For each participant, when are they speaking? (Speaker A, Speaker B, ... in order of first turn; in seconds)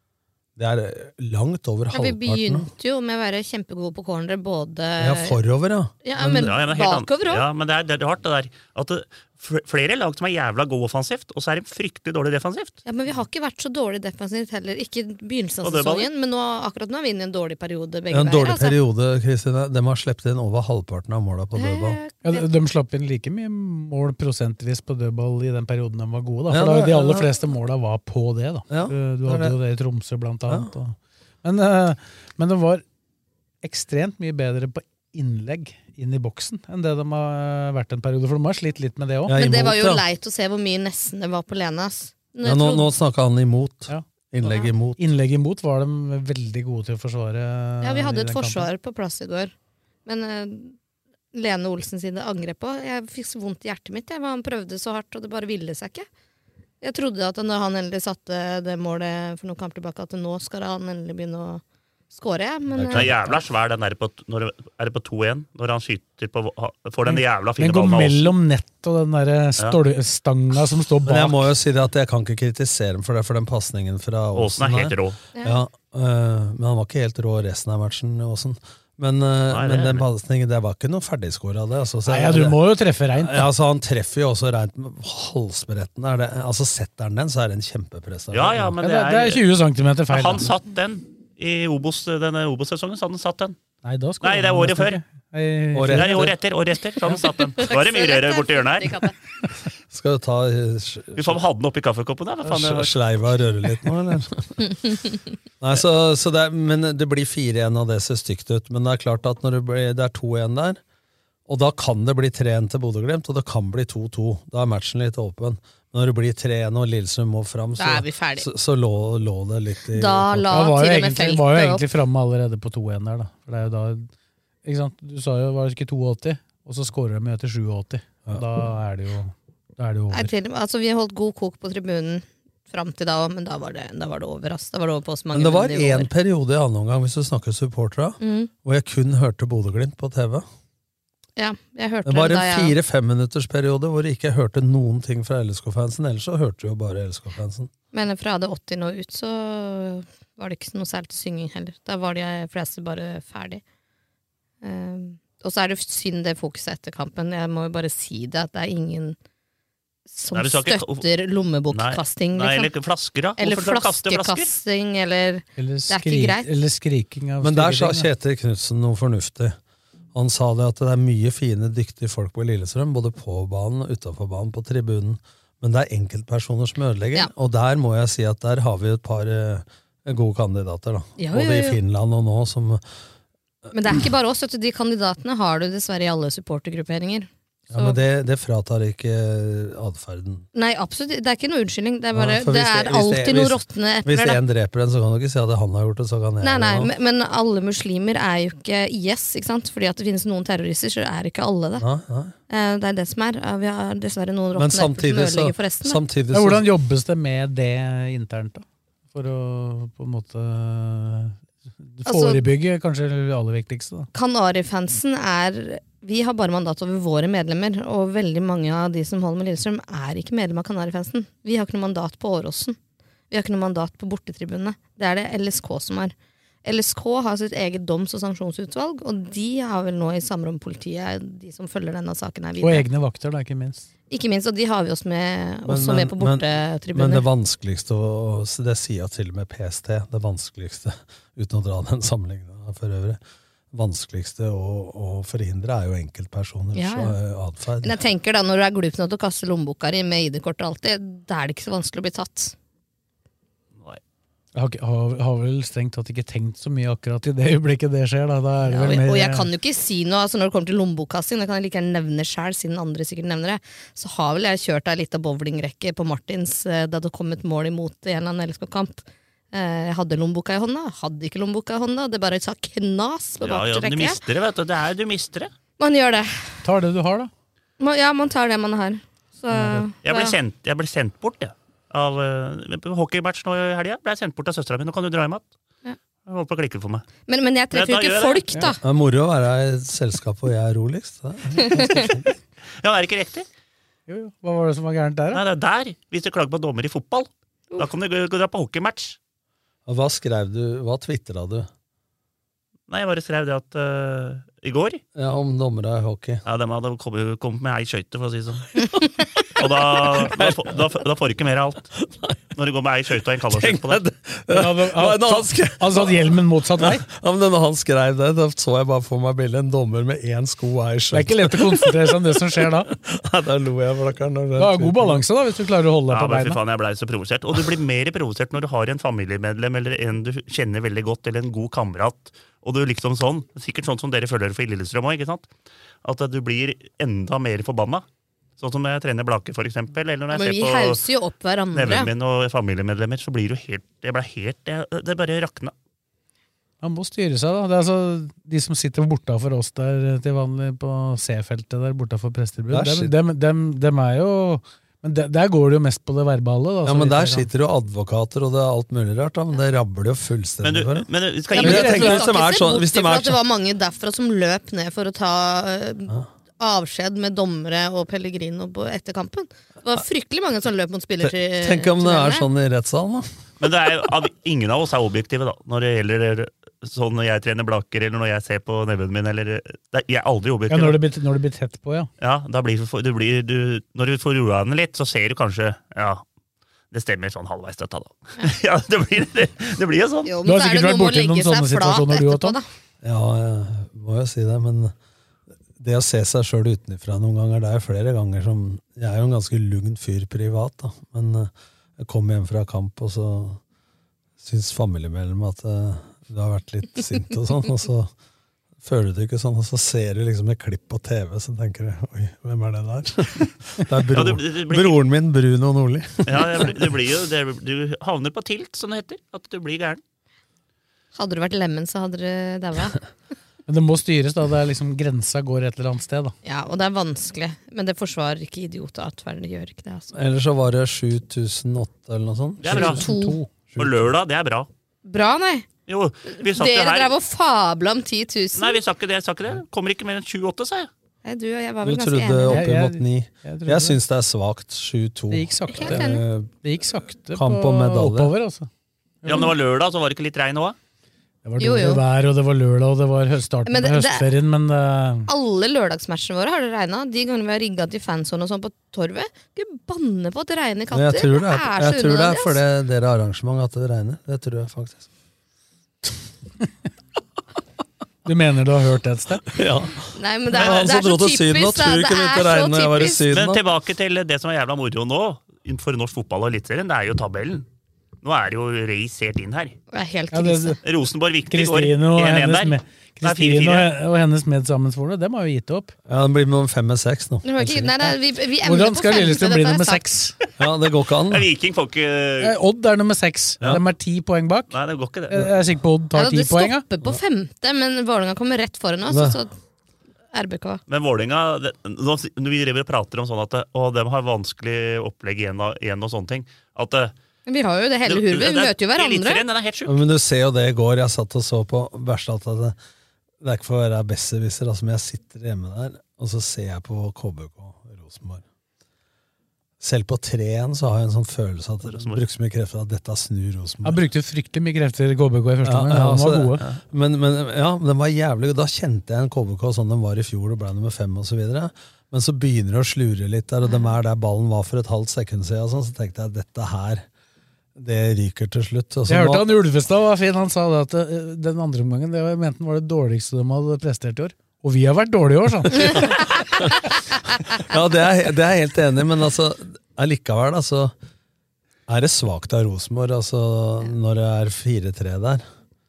Speaker A: 0.6-2.7, 5.0-6.5, 18.1-22.0, 26.5-27.4, 28.7-29.6, 39.3-40.0, 42.4-45.0, 62.7-63.4, 71.1-82.6, 83.2-88.8, 95.7-96.4, 99.9-101.4, 102.4-104.6, 105.6-110.8, 111.5-120.7, 135.3-140.5, 142.1-147.7, 167.4-169.6, 170.1-182.8, 187.7-190.5, 192.1-196.9, 201.8-202.3, 204.6-206.7, 235.7-243.2, 243.7-248.0, 288.8-292.3, 299.9-301.7, 305.1-306.4, 309.6-310.8, 312.0-312.4, 313.5-322.2, 322.9-325.2, 352.7-353.1, 356.9-363.4, 371.2-373.3, 393.0-394.9, 395.8-403.6, 404.4-408.1, 408.8-416.9, 430.1-434.1, 441.8-446.5, 447.3-448.3, 460.9-465.1, 469.5-473.6, 486.1-487.9, 490.6-491.5, 499.1-499.4, 509.9-512.8, 513.4-518.5, 519.8-524.0, 525.6-537.0, 537.8-539.5, 545.9-546.7, 547.6-550.9, 551.9-555.4
Speaker B: 1.9-5.4, 6.0-7.5, 12.8-18.8, 21.6-22.5, 39.3-42.9, 44.5-44.7, 47.8-49.5, 50.1-50.8, 51.3-56.1, 56.8-63.1, 75.4-75.6, 97.6-99.2, 117.8-118.5, 119.9-121.8, 130.1-136.1, 138.2-138.5, 141.4-142.7, 147.9-153.6, 154.6-159.2, 160.1-162.7, 163.4-166.5, 181.2-181.8, 183.7-188.0, 190.5-194.4, 196.4-201.8, 202.5-206.0, 212.1-212.4, 214.1-222.8, 223.3-232.9, 234.1-237.3, 246.7-247.2, 247.8-252.6, 258.7-274.2, 275.8-276.6, 277.8-280.4, 287.3-288.8, 291.6-292.1, 340.3-342.1, 361.5-372.5, 390.3-392.6, 421.1-423.1, 426.4-430.1, 432.8-433.4, 435.1-435.7, 436.4-438.8, 441.2-442.6, 445.7-446.2, 451.6-452.0, 453.7-454.3, 455.3-462.6, 470.1-473.2, 479.9-480.8, 487.4-490.0, 496.1-499.5, 500.3-500.8, 507.5-509.4
Speaker C: 6.4-12.8, 15.6-16.1, 62.9-68.3, 74.3-75.2, 79.5-80.1, 88.3-89.4, 90.1-93.6, 94.2-95.0, 95.9-99.0, 101.2-103.0, 160.3-161.1, 161.7-164.5, 273.4-275.5, 280.0-285.5, 286.3-287.1, 287.7-288.4, 292.8-293.5, 295.3-299.2, 302.9-305.0, 306.4-308.7, 309.6-311.9, 312.6-314.0, 326.1-335.5, 336.0-338.1, 338.6-341.0, 341.7-345.7, 360.6-362.3, 373.6-381.0, 382.2-386.2, 386.9-390.3, 414.1-415.0, 416.3-420.0, 432.6-433.0, 433.8-434.7, 435.9-437.1, 438.6-440.9, 449.2-450.8, 473.3-477.7, 478.2-479.8, 480.8-483.9, 491.3-492.6, 494.7-495.4, 500.9-507.1, 508.1-509.9, 521.9-522.2
Speaker D: 22.2-32.8, 33.6-39.4, 45.0-48.7, 67.1-71.5, 82.1-83.5, 88.8-90.5, 93.8-96.3, 120.5-124.1, 124.7-130.3, 165.6-168.1, 206.3-214.1, 232.6-233.9, 254.6-259.5, 276.6-277.3, 279.5-279.9, 294.1-295.4, 314.5-317.1, 321.1-322.9, 324.6-326.6, 346.8-357.5, 361.6-362.0, 380.7-382.1, 390.4-392.6, 423.7-426.3, 432.7-433.5, 442.5-444.0, 445.3-448.7, 449.2-449.5, 451.4-455.3, 468.2-469.5, 480.3-480.8, 481.5-485.9, 488.6-490.4, 492.4-494.7, 495.3-496.8, 523.8-526.6, 539.1-546.1